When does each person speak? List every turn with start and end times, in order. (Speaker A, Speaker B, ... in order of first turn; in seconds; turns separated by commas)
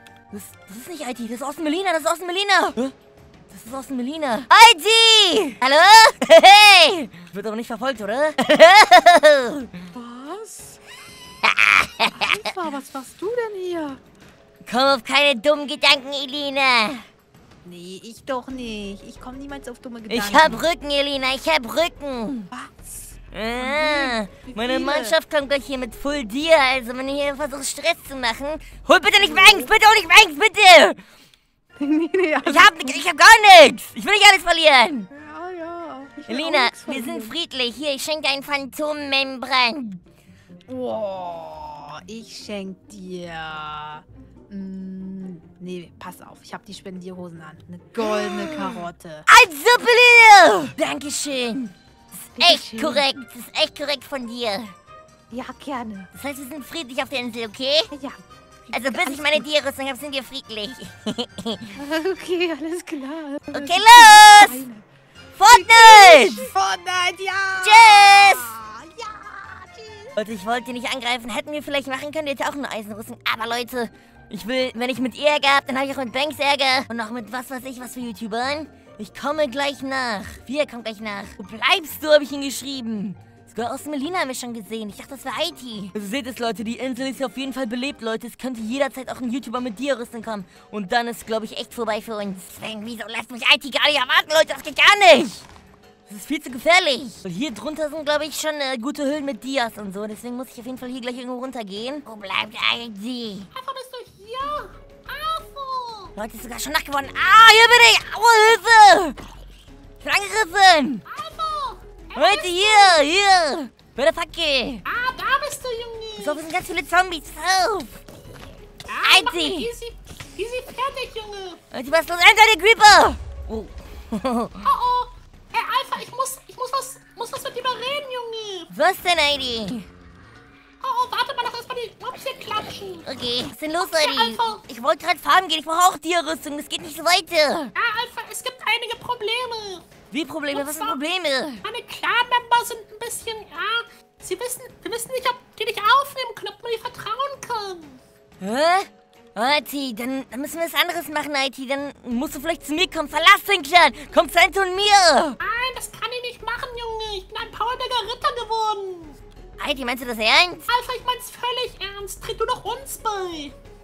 Speaker A: 0.3-2.9, Speaker A: 3.5-9.8, Speaker B: 9.9-10.8, Speaker A: 11.4-12.5, Speaker B: 12.1-14.0, Speaker A: 14.7-17.1, Speaker B: 17.6-20.7, Speaker A: 20.1-22.5, Speaker B: 22.5-25.2, Speaker A: 23.3-31.0, Speaker B: 29.2-29.7, Speaker B: 31.8-33.0, Speaker A: 32.4-35.1, Speaker B: 35.1-37.3, Speaker A: 36.3-40.0, Speaker B: 40.7-49.2, Speaker A: 48.0-51.7, Speaker B: 52.2-53.0, Speaker A: 52.4-54.7, Speaker B: 55.3-56.1, Speaker A: 56.1-57.9, Speaker B: 57.9-59.5, Speaker A: 58.7-61.8, Speaker B: 61.8-64.8, Speaker A: 63.5-64.6, Speaker A: 65.4-66.5, Speaker B: 65.5-70.2, Speaker A: 67.6-68.6, Speaker A: 70.2-95.5, Speaker A: 96.1-103.5, Speaker C: 103.5-106.1, Speaker A: 106.2-109.2, Speaker A: 110.0-111.0, Speaker C: 111.1-113.1, Speaker A: 112.2-114.8, Speaker C: 114.9-116.4, Speaker A: 116.2-118.0, Speaker C: 118.9-121.6, Speaker A: 119.0-119.7, Speaker A: 121.7-124.7, Speaker C: 124.6-128.7, Speaker A: 128.7-129.9, Speaker C: 130.8-133.1, Speaker A: 133.1-137.7, Speaker C: 133.8-134.6, Speaker C: 137.8-139.8, Speaker A: 140.1-141.6, Speaker C: 140.5-141.0, Speaker C: 141.6-148.0, Speaker A: 148.4-155.4, Speaker C: 155.4-159.2, Speaker A: 159.6-160.7, Speaker C: 160.7-163.5